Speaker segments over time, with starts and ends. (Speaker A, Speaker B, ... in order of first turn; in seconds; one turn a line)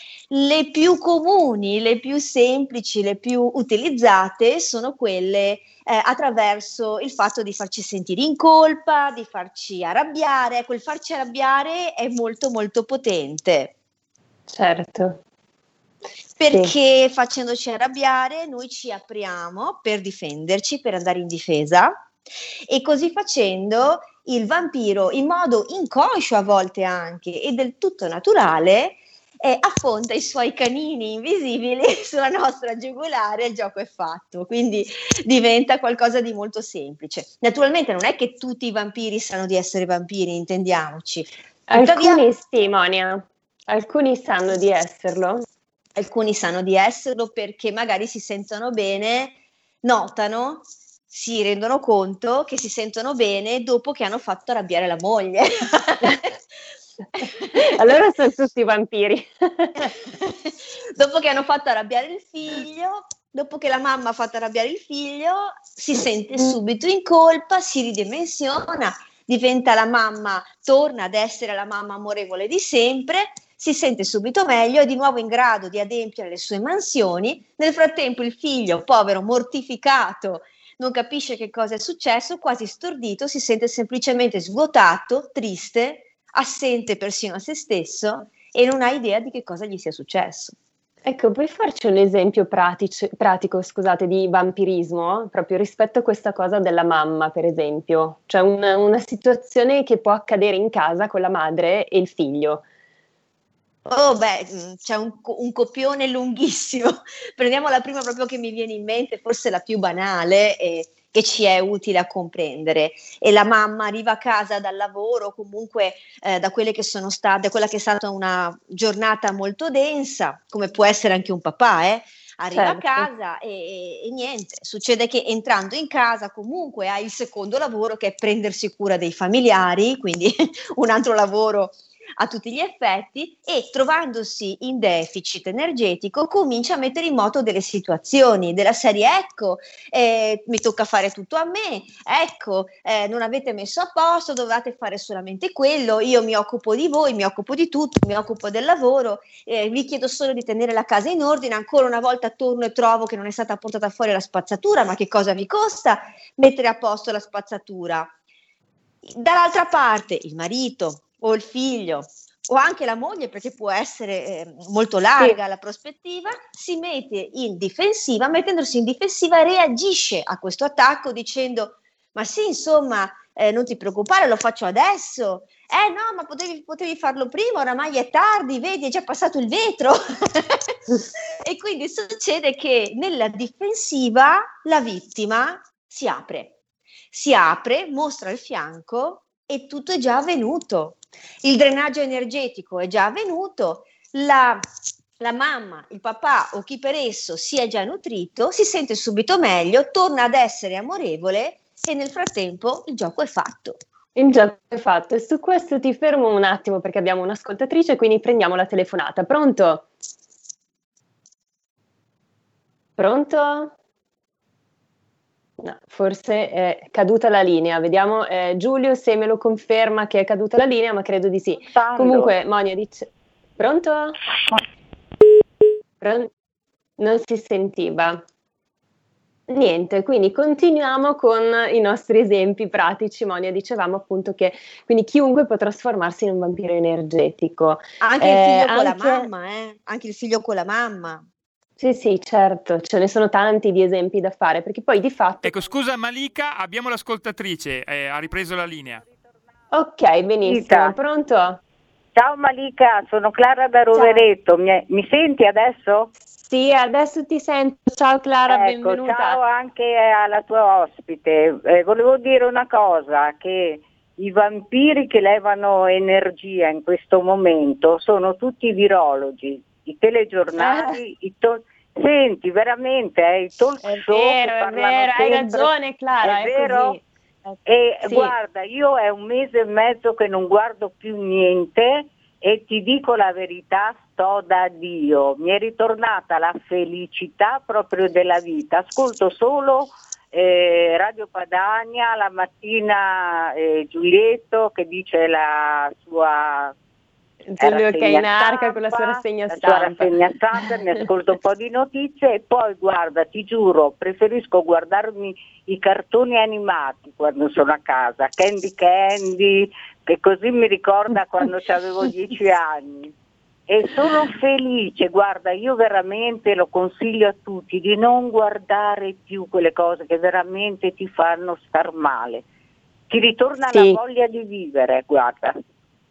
Speaker A: 0.3-13.7
Speaker B: 14.5-15.2
Speaker A: 16.4-22.1
Speaker A: 22.7-42.2
Speaker B: 41.7-45.4
Speaker A: 45.9-56.3
Speaker A: 57.2-57.6
Speaker B: 57.5-59.9
Speaker A: 60.0-90.5
Speaker B: 91.0-102.6
Speaker A: 103.8-158.1
Speaker B: 122.5-123.1
Speaker A: 159.0-180.7
Speaker A: 181.4-186.6
Speaker A: 187.1-194.6
Speaker A: 195.2-203.8
Speaker B: 204.2-209.9
Speaker B: 213.0-213.7
Speaker B: 215.6-224.2
Speaker C: 221.6-222.3
Speaker B: 226.0-226.3
Speaker B: 227.0-228.2
Speaker B: 229.5-239.3
Speaker A: 238.0-241.2
Speaker B: 241.8-245.6
Speaker D: 245.4-249.0
Speaker B: 249.7-251.6
Speaker C: 250.4-250.9
Speaker C: 252.1-256.1
Speaker B: 253.9-254.2
Speaker B: 256.3-259.4
Speaker C: 258.5-277.0
Speaker B: 270.6-271.0
Speaker B: 273.8-278.3
Speaker C: 277.6-296.7
Speaker B: 297.5-300.1
Speaker C: 297.6-313.1
Speaker C: 313.7-322.4
Speaker C: 323.1-325.6
Speaker B: 323.7-324.0